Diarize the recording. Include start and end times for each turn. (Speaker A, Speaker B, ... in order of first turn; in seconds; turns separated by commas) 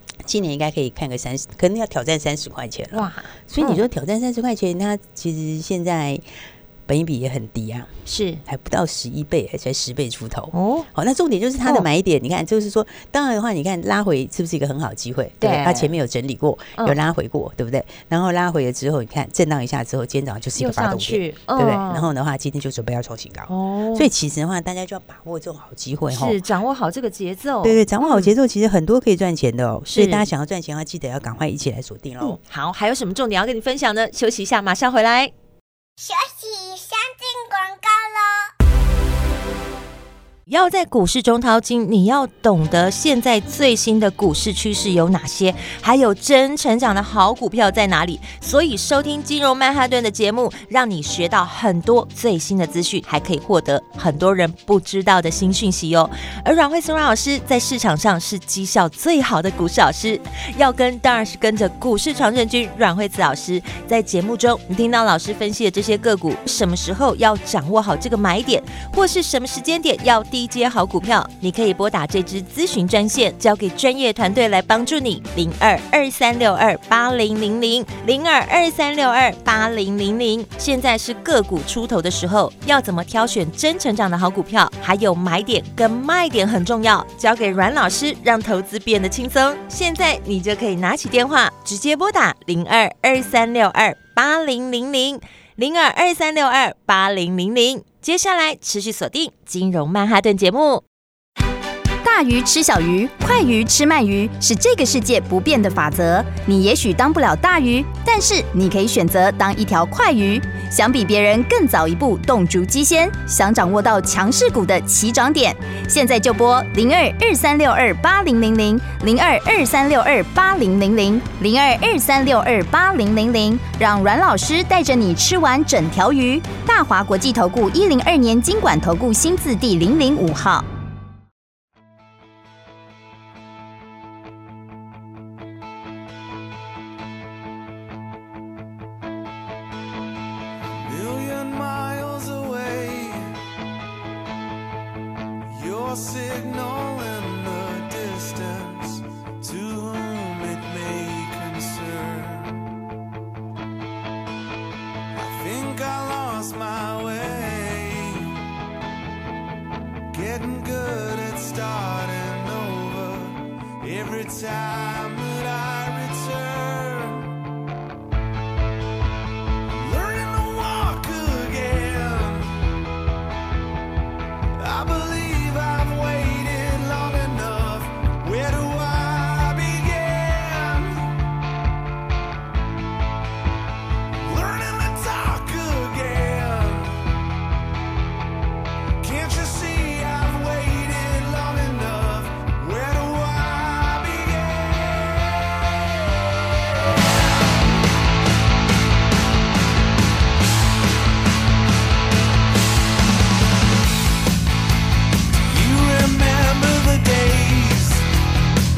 Speaker A: 0.2-6.2, Speaker B: 2.9-3.8, Speaker A: 6.9-7.9, Speaker B: 8.1-8.4, Speaker A: 8.4-26.4, Speaker B: 10.5-10.9, Speaker B: 15.4-15.9, Speaker B: 20.6-22.1, Speaker B: 23.5-24.1, Speaker B: 26.1-28.3, Speaker A: 27.6-32.4, Speaker B: 29.9-30.2, Speaker B: 32.2-35.3, Speaker C: 36.0-38.5, Speaker B: 40.5-100.8, Speaker D: 102.0-130.7, Speaker E: 140.8-143.3, Speaker E: 145.5-152.6, Speaker E: 155.1-158.4, Speaker E: 160.1-167.3, Speaker E: 169.7-172.6, Speaker E: 174.6-181.2, Speaker E: 184.2-187.1, Speaker E: 189.0-197.6, Speaker E: 205.4-208.1